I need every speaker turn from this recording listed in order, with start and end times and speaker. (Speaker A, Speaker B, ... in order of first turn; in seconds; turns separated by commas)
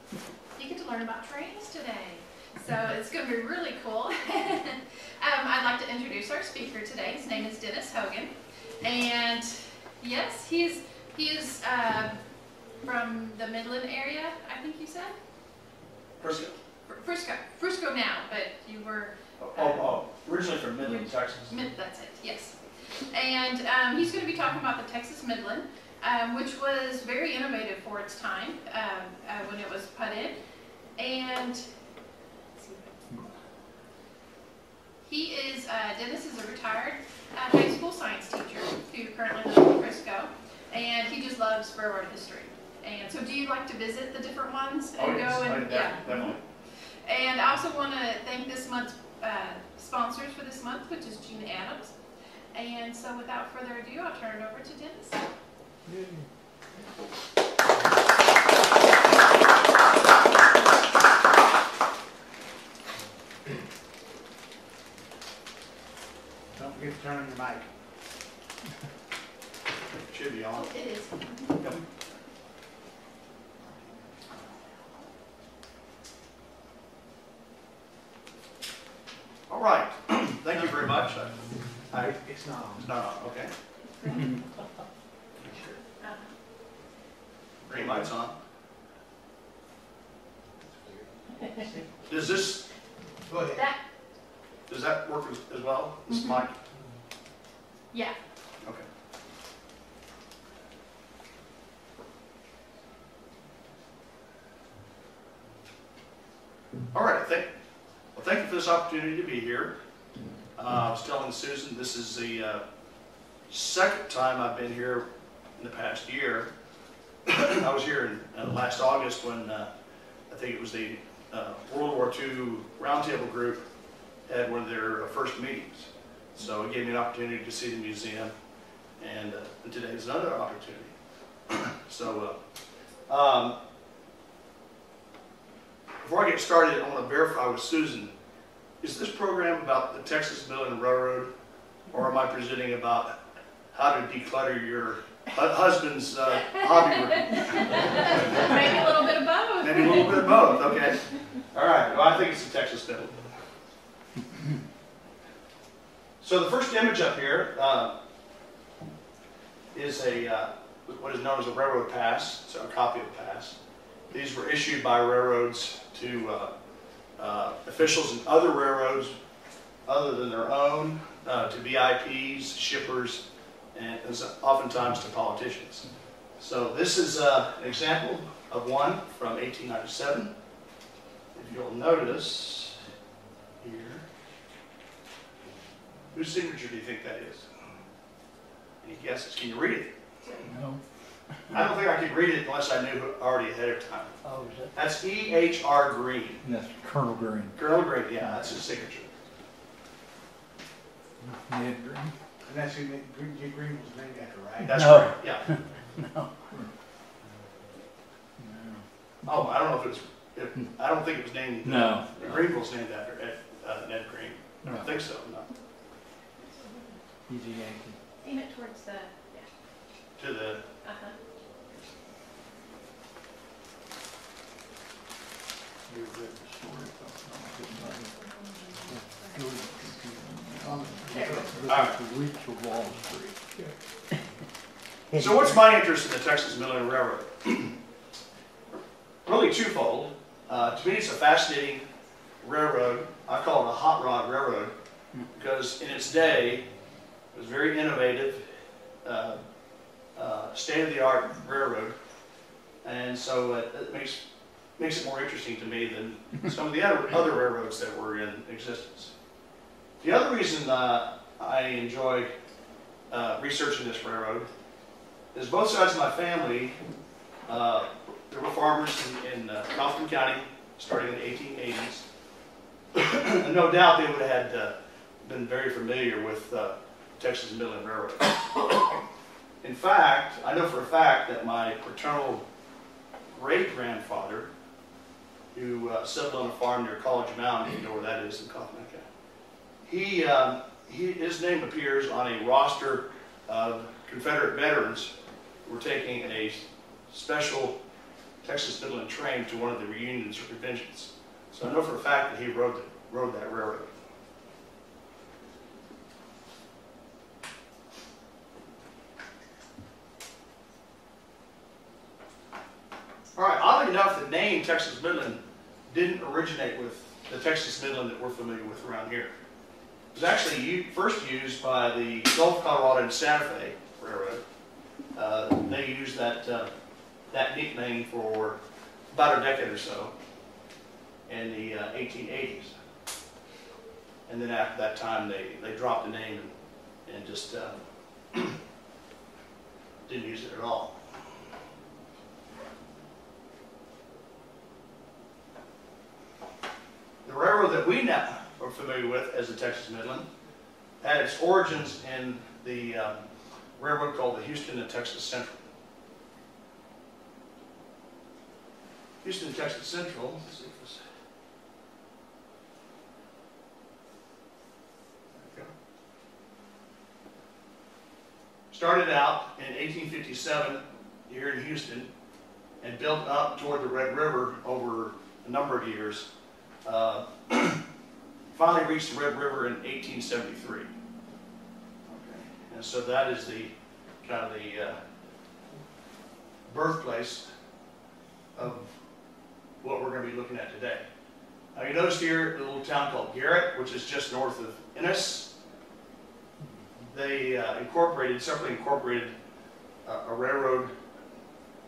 Speaker A: 0.6-12.2, Speaker A: 12.8-15.1, Speaker B: 16.2-16.6, Speaker A: 16.9-20.0, Speaker B: 19.4-21.6, Speaker A: 20.8-22.5, Speaker A: 23.1-30.4, Speaker A: 31.0-31.6, Speaker A: 32.6-32.9, Speaker A: 35.0-46.2, Speaker B: 45.0-46.4, Speaker A: 47.0-51.9, Speaker A: 52.5-55.2, Speaker C: 66.5-67.7, Speaker B: 70.0-70.7, Speaker A: 70.6-71.5, Speaker B: 79.5-81.3, Speaker B: 81.9-82.2, Speaker C: 82.2-82.9, Speaker B: 82.8-83.5, Speaker A: 84.0-84.3, Speaker B: 85.4-85.7, Speaker B: 87.7-88.3, Speaker C: 87.7-88.0, Speaker C: 90.6-91.9, Speaker B: 92.1-92.6, Speaker C: 93.3-93.6, Speaker B: 94.7-96.5, Speaker A: 96.1-96.4, Speaker B: 106.9-107.5, Speaker B: 108.1-109.7, Speaker B: 110.6-112.6, Speaker B: 113.5-115.0, Speaker B: 115.6-116.5, Speaker B: 117.2-119.7, Speaker B: 120.3-123.6, Speaker B: 124.3-128.3, Speaker B: 129.0-130.9, Speaker B: 131.5-132.4, Speaker B: 133.1-133.6, Speaker B: 136.0-138.1, Speaker B: 138.8-141.3, Speaker B: 141.9-143.2, Speaker B: 143.7-148.5, Speaker A: 147.4-150.3, Speaker B: 149.6-153.2, Speaker B: 156.2-157.9, Speaker B: 159.7-163.6, Speaker B: 164.1-166.5, Speaker B: 167.2-169.1, Speaker B: 169.8-175.8, Speaker B: 176.4-180.3, Speaker B: 181.3-182.8, Speaker B: 183.6-184.0, Speaker B: 186.1-187.5, Speaker B: 188.8-189.9, Speaker D: 190.4-190.8, Speaker B: 191.5-194.1, Speaker D: 194.2-194.7, Speaker B: 194.7-196.4, Speaker D: 196.4-197.6, Speaker B: 197.6-199.1, Speaker D: 201.2-202.1, Speaker C: 202.4-204.9, Speaker B: 204.6-205.5, Speaker D: 204.6-206.3, Speaker D: 208.4-208.8, Speaker B: 209.2-215.5, Speaker D: 211.6-212.1, Speaker A: 216.4-216.9, Speaker D: 217.3-218.0, Speaker A: 218.2-219.5, Speaker B: 220.2-220.6, Speaker A: 220.8-221.1, Speaker D: 225.9-228.1, Speaker D: 228.8-233.3, Speaker C: 230.6-231.8, Speaker B: 231.6-232.0, Speaker B: 235.1-237.8, Speaker B: 239.2-241.8, Speaker B: 242.4-244.7, Speaker B: 245.3-246.6, Speaker B: 247.3-248.4, Speaker B: 249.0-249.4, Speaker B: 250.1-251.9, Speaker B: 252.8-254.2, Speaker B: 254.8-259.1, Speaker B: 260.0-262.3, Speaker B: 263.1-264.5, Speaker B: 265.3-266.8, Speaker B: 267.5-272.0, Speaker B: 272.9-278.4, Speaker B: 279.6-282.4, Speaker B: 283.3-284.5, Speaker B: 285.5-289.0, Speaker B: 289.8-295.1, Speaker B: 295.6-297.8, Speaker B: 298.4-303.9, Speaker B: 313.4-319.3, Speaker B: 320.1-324.4, Speaker B: 325.1-326.7, Speaker B: 327.3-328.6, Speaker B: 329.1-330.1, Speaker B: 331.3-332.7, Speaker B: 334.3-336.5, Speaker B: 337.1-337.8, Speaker B: 340.1-340.9, Speaker B: 347.2-350.2, Speaker B: 351.0-353.2, Speaker B: 353.8-355.6, Speaker B: 359.2-361.0, Speaker B: 365.4-365.7, Speaker B: 368.7-372.1, Speaker B: 372.8-376.3, Speaker B: 376.8-377.8, Speaker B: 378.5-380.9, Speaker B: 382.1-383.7, Speaker B: 384.2-385.0, Speaker B: 386.7-387.5, Speaker B: 388.6-388.9, Speaker B: 389.8-391.0, Speaker B: 391.7-395.5, Speaker B: 397.1-399.3, Speaker B: 400.0-400.9